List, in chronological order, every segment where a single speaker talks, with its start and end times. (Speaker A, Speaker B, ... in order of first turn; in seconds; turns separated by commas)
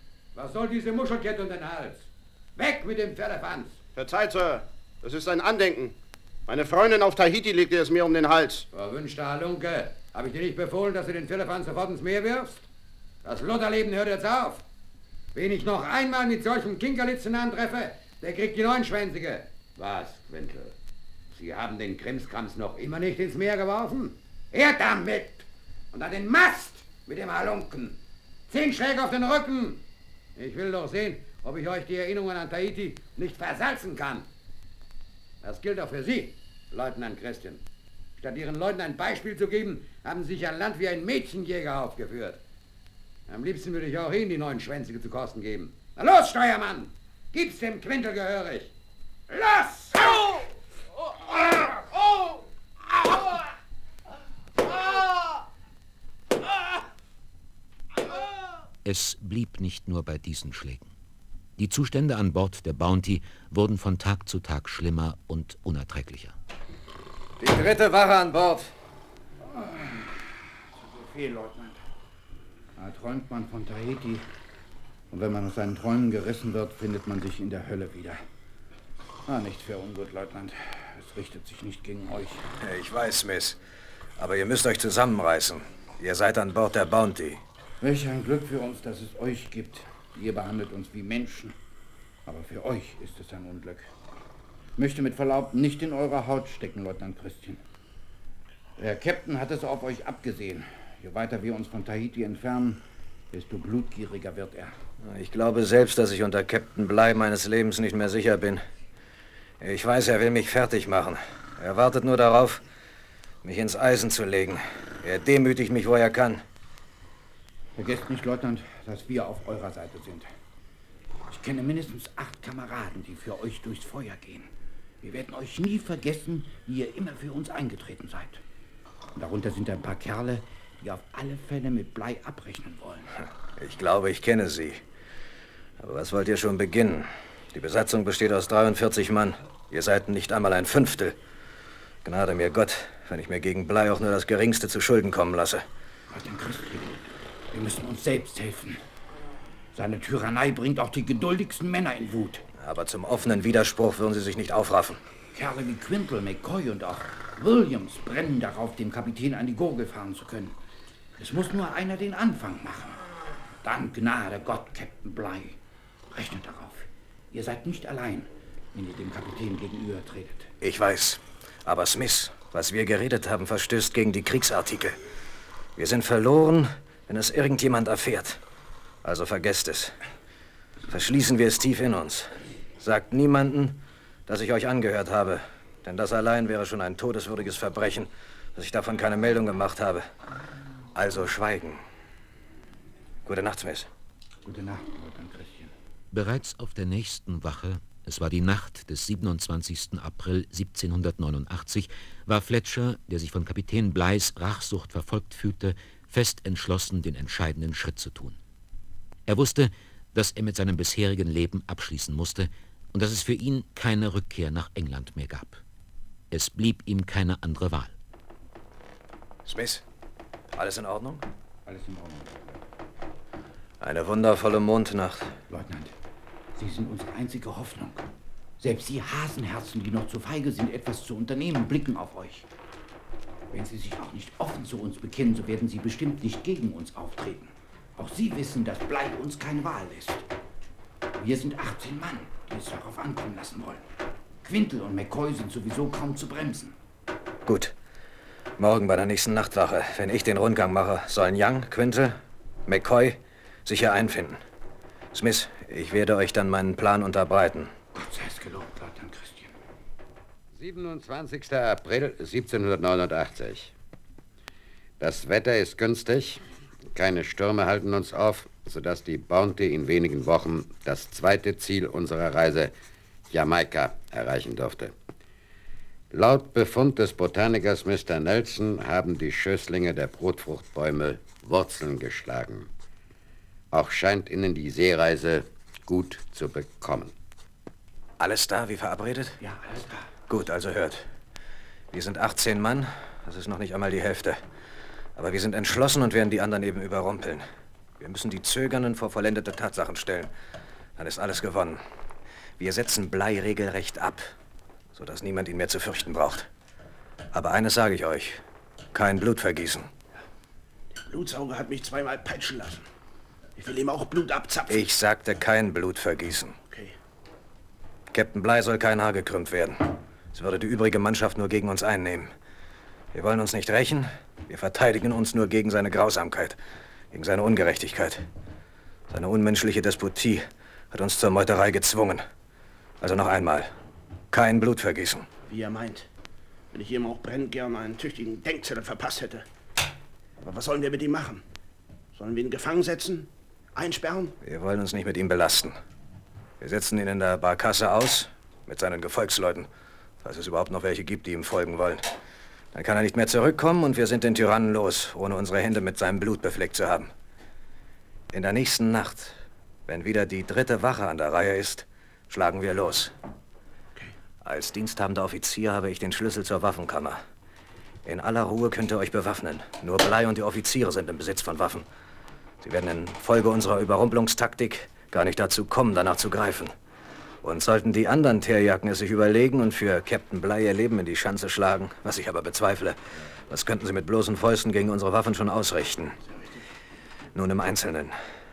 Speaker A: 0.3-3.8, Speaker B: 4.0-6.0, Speaker B: 6.5-8.7, Speaker A: 8.7-12.6, Speaker A: 13.2-14.6, Speaker A: 15.3-20.7, Speaker A: 21.3-28.0, Speaker A: 28.5-29.8, Speaker A: 30.4-34.3, Speaker A: 35.4-37.6, Speaker A: 38.2-42.4, Speaker A: 43.3-48.7, Speaker A: 49.3-50.1, Speaker C: 58.8-60.9, Speaker C: 61.6-66.3, Speaker D: 67.4-68.7, Speaker E: 69.4-71.8, Speaker E: 72.8-74.2, Speaker E: 75.1-78.2, Speaker E: 79.2-82.4, Speaker D: 82.6-83.6, Speaker D: 84.2-87.4, Speaker E: 87.8-91.5, Speaker E: 92.2-93.9, Speaker E: 94.8-97.6, Speaker E: 98.8-104.7, Speaker D: 105.0-108.6, Speaker D: 109.6-112.6, Speaker D: 113.4-116.4, Speaker E: 117.7-120.3, Speaker E: 121.3-124.5, Speaker E: 125.0-128.4, Speaker E: 129.1-133.1, Speaker D: 133.6-134.8, Speaker D: 135.8-141.2, Speaker D: 142.0-145.6, Speaker E: 146.1-148.8, Speaker E: 149.7-152.4, Speaker D: 152.6-155.0, Speaker E: 155.3-160.6, Speaker E: 161.2-163.0, Speaker E: 163.6-165.6, Speaker E: 166.1-170.5, Speaker D: 170.6-175.0, Speaker D: 175.8-178.4, Speaker D: 179.0-180.0, Speaker D: 180.9-190.0, Speaker D: 190.9-191.8, Speaker D: 193.2-193.9, Speaker E: 194.4-195.7, Speaker C: 196.1-208.4, Speaker C: 209.3-215.6, Speaker C: 216.3-217.9, Speaker D: 219.4-219.8, Speaker D: 220.5-221.2, Speaker E: 221.7-222.4, Speaker D: 223.8-225.3, Speaker E: 225.5-225.9, Speaker E: 226.6-228.1, Speaker E: 228.6-232.5, Speaker E: 233.5-240.2, Speaker E: 241.2-243.8, Speaker E: 244.4-246.7, Speaker D: 247.4-247.7, Speaker D: 248.6-254.4, Speaker D: 255.1-257.7, Speaker E: 257.9-259.5, Speaker A: 260.5-263.7, Speaker A: 265.0-266.4, Speaker A: 266.9-272.7, Speaker A: 273.3-274.9, Speaker A: 276.1-282.7, Speaker A: 283.7-287.1, Speaker D: 288.2-289.4, Speaker E: 289.5-289.9, Speaker D: 290.3-291.0, Speaker D: 291.9-294.4, Speaker D: 295.2-297.4, Speaker D: 298.0-300.3, Speaker D: 301.0-301.8, Speaker D: 302.6-304.3, Speaker D: 304.9-306.5, Speaker D: 307.3-308.4, Speaker D: 308.9-309.9, Speaker F: 311.1-312.9, Speaker F: 313.6-314.9, Speaker D: 314.7-316.6, Speaker D: 318.1-322.3, Speaker D: 323.1-326.6, Speaker D: 327.1-328.2, Speaker D: 329.1-332.2, Speaker D: 333.0-333.7, Speaker D: 334.3-335.2, Speaker F: 335.5-336.1, Speaker F: 336.7-339.4, Speaker F: 340.4-341.4, Speaker F: 342.1-344.3, Speaker D: 344.4-345.8, Speaker D: 346.6-349.7, Speaker D: 350.2-352.1, Speaker D: 352.7-357.1, Speaker D: 358.3-359.4, Speaker D: 359.9-363.1, Speaker D: 364.4-367.2, Speaker D: 368.0-371.9, Speaker D: 372.6-376.7, Speaker D: 377.4-386.2, Speaker D: 387.3-388.1